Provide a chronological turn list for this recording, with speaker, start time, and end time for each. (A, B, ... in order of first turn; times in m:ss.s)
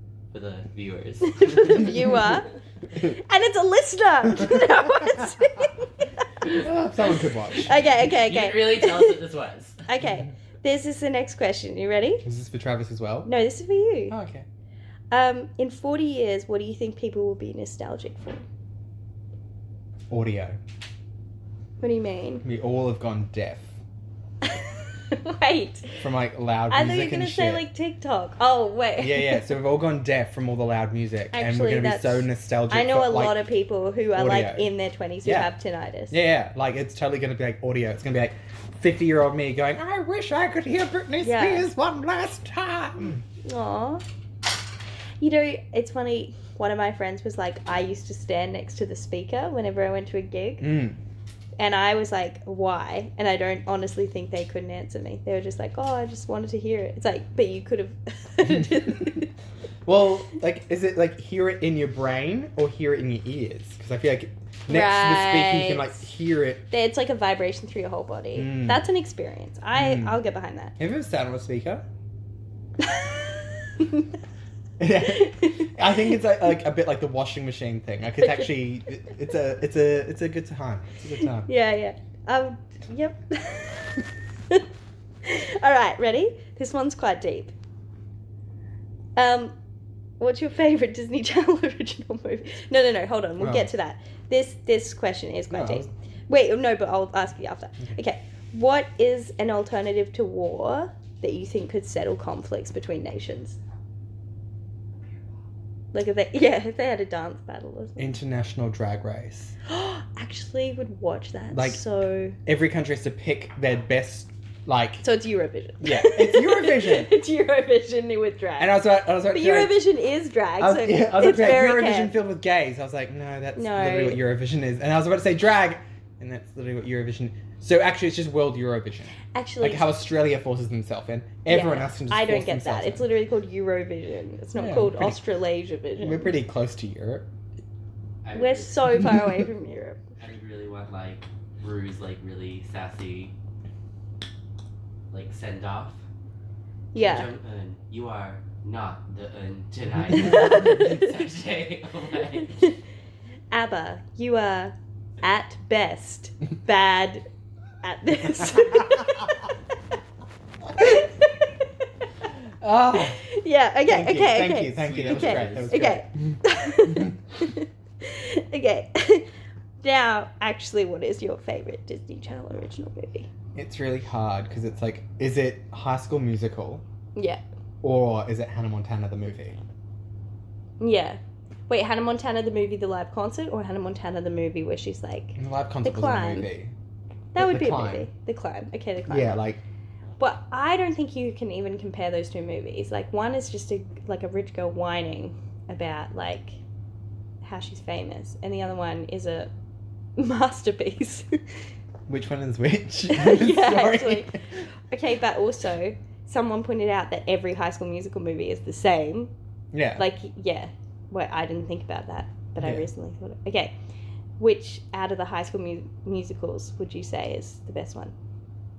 0:00.3-0:01.9 A
0:01.3-0:06.6 B
0:06.5-0:07.8 C
0:07.6-0:09.2 B
0:07.8-0:09.9 A
0:09.8-0:12.2 B
0:12.2-0:13.3 C
0:13.2-0:14.2 B
0:14.1-0:14.4 C
0:15.1-0:18.4 B
0:20.1-0:20.6 C
0:21.8-0:22.4 B
0:22.4-0:23.7 C
0:24.4-0:25.9 B
0:26.0-0:27.6 C
0:26.7-0:29.5 B
0:29.0-0:33.4 C
0:31.3-0:36.2 B
0:34.1-0:34.7 C
0:35.2-0:35.5 C
0:36.1-0:43.2 C
0:41.2-0:41.7 B
0:43.4-0:44.0 B
0:45.2-0:50.7 B
0:50.6-0:51.0 C
0:51.6-0:59.3 B
0:59.8-1:06.7 C
1:04.7-1:06.0 B
1:06.7-1:10.7 B
1:08.3-1:08.8 C
1:09.7-1:10.2 C
1:10.8-1:11.8 C
1:12.8-1:14.1 B
1:14.8-1:21.5 C
1:15.0-1:16.2 B
1:18.2-1:18.5 B
1:21.4-1:24.6 B
1:25.2-1:27.5 B
1:29.2-1:29.5 B
1:30.2-1:43.6 B
1:33.4-1:33.7 C
1:35.5-1:35.9 C
1:45.9-1:48.1 B
1:48.0-1:49.6 C
1:49.6-1:52.4 B
1:51.5-1:51.8 C
1:52.4-1:55.0 C
1:55.0-2:02.2 B
1:55.8-1:57.1 C
1:58.6-1:59.8 C
2:00.6-2:13.1 C
2:03.5-2:04.2 B
2:09.3-2:09.9 B
2:11.4-2:16.4 B
2:14.6-2:15.2 C
2:16.0-2:17.3 C
2:18.2-2:18.8 A
2:18.3-2:20.0 B
2:19.0-2:19.4 C
2:20.2-2:23.3 A
2:25.1-2:26.0 A
2:26.9-2:27.3 B
2:26.9-2:32.5 A
2:30.3-2:31.0 B
2:32.5-2:32.8 B
2:33.5-2:37.2 B
2:37.8-2:39.5 B
2:40.8-2:42.3 B
2:42.6-2:43.2 C
2:43.2-2:49.3 B
2:43.8-2:46.4 C
2:44.8-2:45.8 A
2:49.8-2:53.3 B
2:53.5-2:56.8 C
2:57.2-2:57.4 B
2:57.8-2:59.6 C
3:00.8-3:06.5 B
3:05.4-3:06.7 C
3:07.3-3:09.4 B
3:07.4-3:08.1 C
3:09.1-3:09.6 C
3:10.2-3:16.6 B
3:17.4-3:19.5 B
3:20.2-3:21.3 B
3:22.1-3:24.4 C
3:23.1-3:29.3 B
3:29.7-3:30.0 C
3:30.0-3:33.7 B
3:32.6-3:32.9 C
3:34.4-3:38.1 B